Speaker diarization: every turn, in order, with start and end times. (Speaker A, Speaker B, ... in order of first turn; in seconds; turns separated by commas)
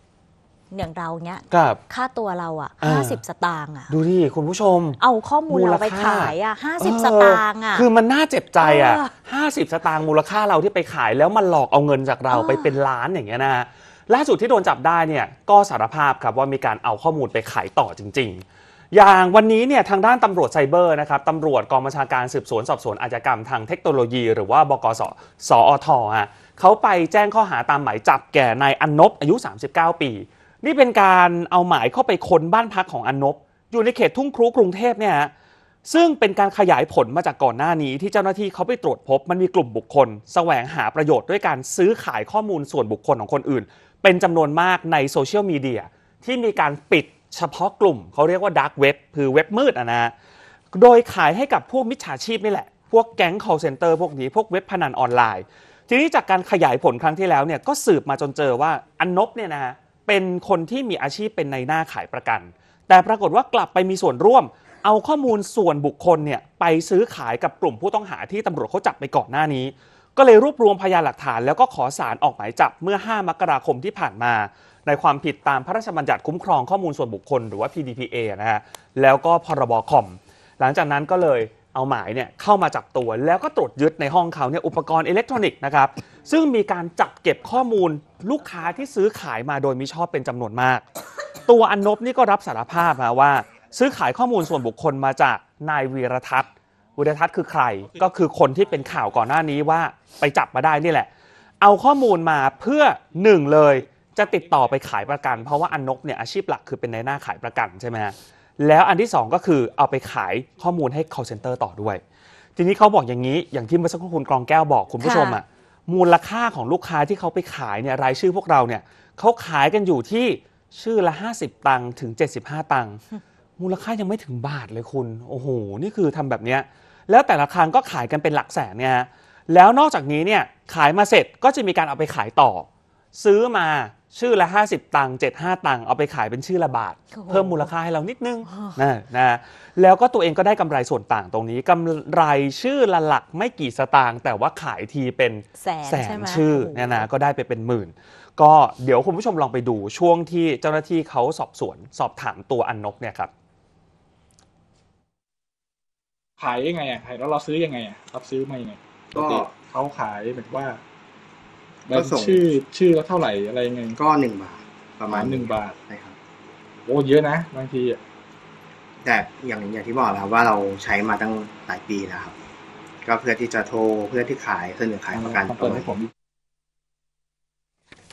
Speaker A: 0.7-3.9, Speaker B: 1.5-1.8, Speaker B: 2.8-3.2, Speaker B: 3.9-5.0, Speaker A: 5.0-7.9, Speaker B: 5.5-35.3, Speaker A: 8.6-9.1, Speaker A: 12.3-12.8, Speaker B: 35.9-50.1, Speaker B: 50.7-90.8, Speaker B: 91.5-101.1, Speaker B: 101.6-112.0, Speaker B: 112.6-123.0, Speaker A: 115.0-115.4, Speaker B: 123.6-153.3, Speaker A: 137.1-137.7, Speaker A: 138.5-138.8, Speaker A: 145.6-147.1, Speaker C: 156.4-160.8, Speaker D: 159.2-159.5, Speaker C: 161.9-164.0, Speaker D: 161.9-162.4, Speaker D: 163.9-166.2, Speaker C: 165.1-165.8, Speaker C: 166.8-168.0, Speaker D: 169.0-172.3, Speaker D: 173.0-175.9, Speaker C: 175.1-176.1